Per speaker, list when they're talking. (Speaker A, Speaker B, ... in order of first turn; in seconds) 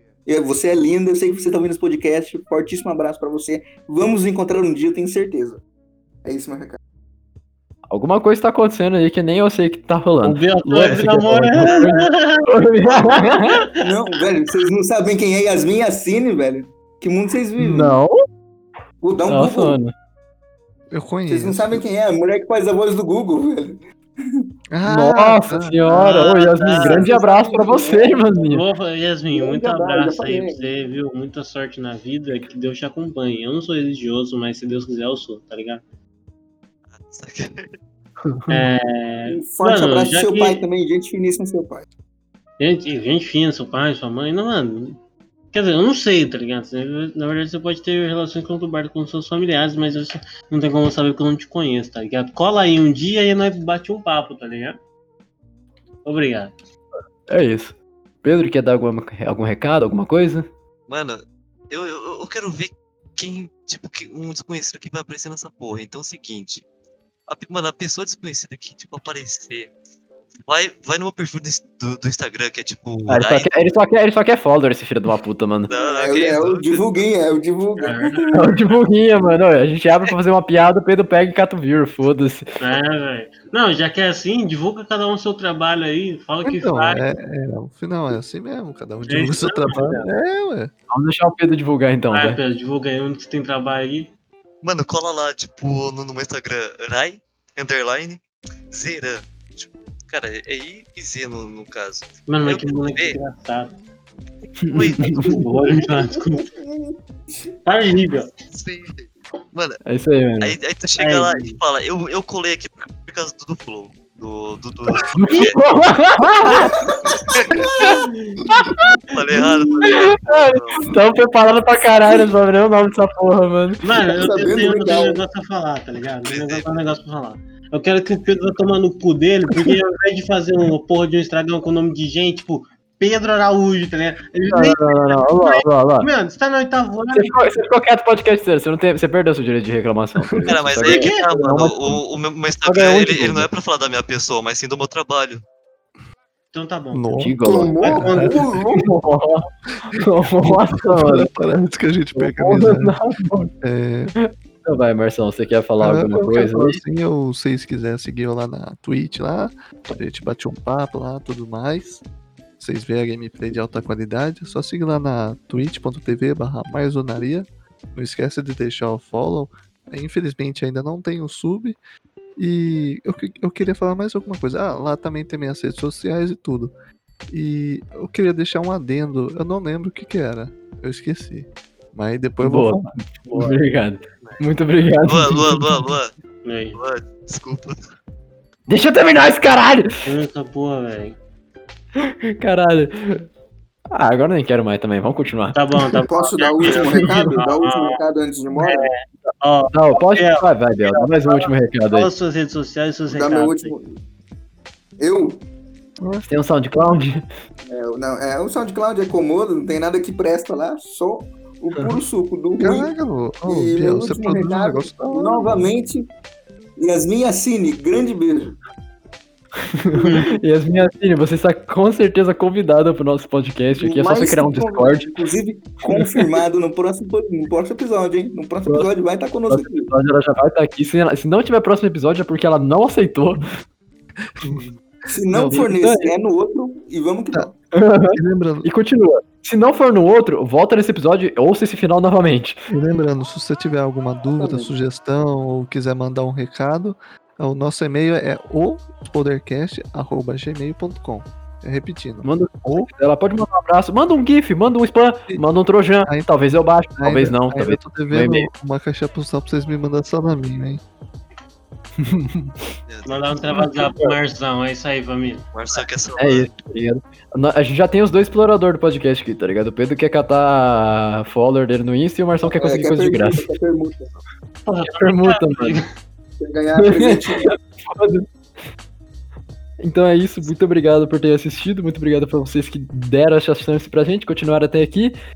Speaker A: 0.2-5.6, 6.2-6.8, 13.8-18.0, 19.0-19.8, 21.3-24.5, 26.8-28.4, 29.3-30.7, 39.3-41.9, 75.7-78.5, 105.4-107.5, 116.5-118.0, 124.1-125.2, 147.4-148.9, 196.1-198.9, 203.1-204.0, 205.0-205.4, 207.7-212.9, 213.4-216.1, 216.8-218.6, 223.8-229.9, 235.1-237.5, 244.4-244.7, 272.4-274.1, 276.4-277.5
Speaker B: 7.9-13.6, 17.6-18.1, 19.3-19.9, 24.9-28.6, 38.2-38.6, 57.3-60.5, 73.1-75.7, 78.3-82.5, 90.9-92.4, 104.6-105.3, 109.8-110.5, 115.1-116.8, 118.5-118.8, 119.8-123.8, 134.5-136.1, 137.1-142.0, 142.6-143.5, 147.2-147.9, 148.7-151.3, 152.1-153.5, 154.2-156.8, 182.4-185.8, 188.7-190.0, 192.0-193.3, 193.9-196.1, 196.9-197.3, 199.7-202.1, 206.3-207.2, 219.6-225.1, 225.9-226.3, 229.5-233.6, 235.5-236.1, 237.7-242.6, 252.2-258.5, 262.0-262.7, 263.5-264.1, 266.2-273.5, 274.8-275.8, 276.8-278.3, 279.8-285.1
Speaker C: 10.2-14.0, 25.8-27.1, 28.5-35.8, 38.5-40.6, 42.6-45.0, 45.5-54.8, 56.0-56.5, 77.8-78.2, 82.6-87.0, 89.0-90.1, 92.1-94.1, 102.3-103.7, 105.1-106.5, 107.7-108.3, 111.0-111.6, 117.8-118.4, 123.8-137.4, 140.8-141.2, 146.5-148.6, 183.3-183.6, 186.4-186.8, 190.0-191.2, 195.5-198.0, 198.5-203.7, 220.0-220.4, 263.0-265.8, 274.6-275.9
Speaker D: 20.9-21.9, 24.7-25.8, 86.4-90.7, 146.9-147.3, 147.9-148.4, 150.0-152.9, 153.6-154.1, 155.8-162.0, 162.6-171.8, 172.4-176.7, 177.3-182.9, 206.0-206.3, 212.6-215.7, 234.3-235.7, 238.1-238.7, 242.7-252.9, 256.0-256.3, 257.0-260.8
Speaker E: 36.9-37.7, 60.9-66.6, 67.3-69.7, 70.5-73.5, 75.7-77.0, 94.6-103.2, 104.6-105.5, 108.5-109.8, 110.4-115.6, 117.3-117.6, 119.1-120.9, 126.2-126.6, 140.4-145.4, 185.0-186.1, 186.8-187.8, 262.9-263.3, 265.5-266.5